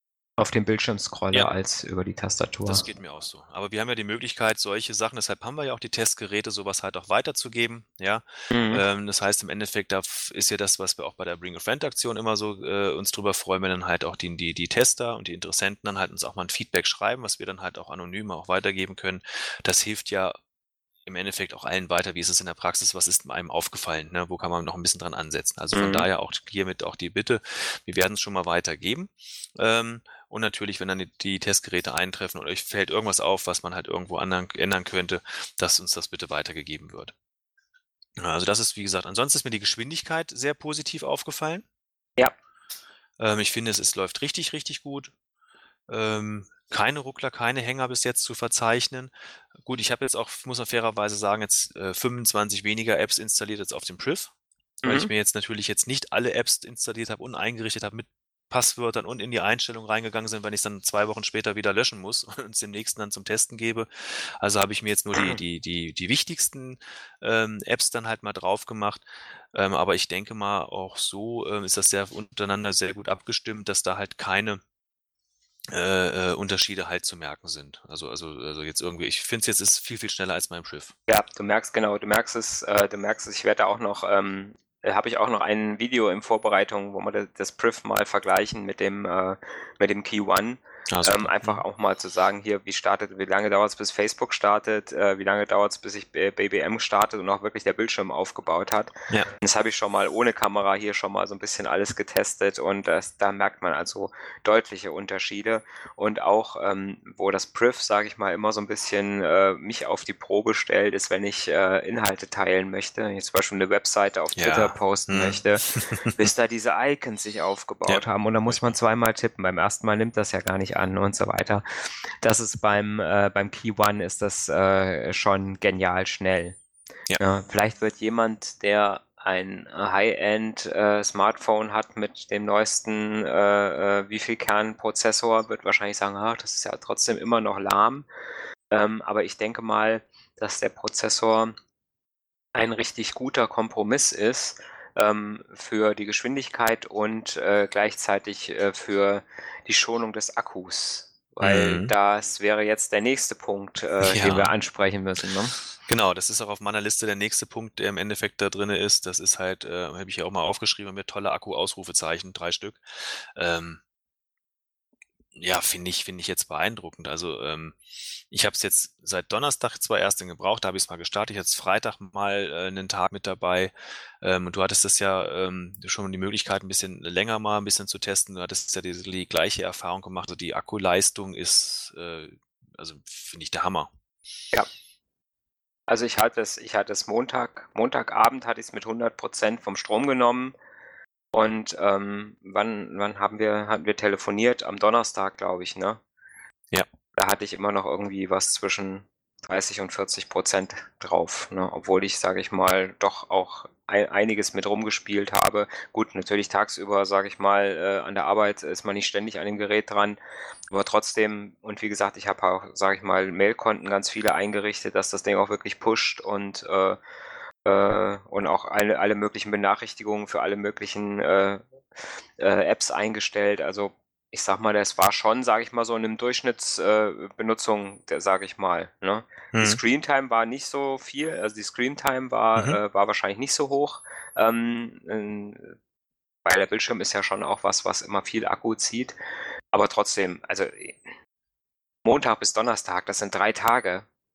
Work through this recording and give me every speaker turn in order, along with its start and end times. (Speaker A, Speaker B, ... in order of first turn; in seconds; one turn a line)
Speaker A: 0.4-2.9
Speaker B: 2.7-20.4
Speaker A: 8.5-8.8
Speaker B: 21.1-37.1
Speaker A: 25.7-26.1
Speaker B: 38.2-41.6
Speaker B: 43.2-45.1
Speaker B: 45.9-54.3
Speaker A: 54.8-55.1
Speaker B: 54.8-74.6
Speaker A: 65.1-65.4
Speaker B: 75.7-80.9
Speaker A: 81.1-121.6
Speaker B: 90.9-91.6
Speaker B: 114.4-116.2
Speaker B: 117.9-118.7
Speaker A: 122.2-126.6
Speaker A: 127.2-138.1
Speaker A: 138.7-141.5
Speaker A: 142.5-155.5
Speaker B: 151.4-151.9
Speaker B: 154.0-154.5
Speaker B: 155.8-163.8
Speaker B: 165.4-167.8
Speaker B: 168.3-183.9
Speaker A: 185.9-190.6
Speaker A: 191.3-196.0
Speaker A: 197.2-210.2
Speaker A: 210.7-217.0
Speaker A: 217.6-221.6
Speaker A: 222.4-235.7
Speaker B: 229.5-229.8
Speaker A: 236.4-239.2
Speaker A: 239.7-241.0
Speaker A: 242.0-244.1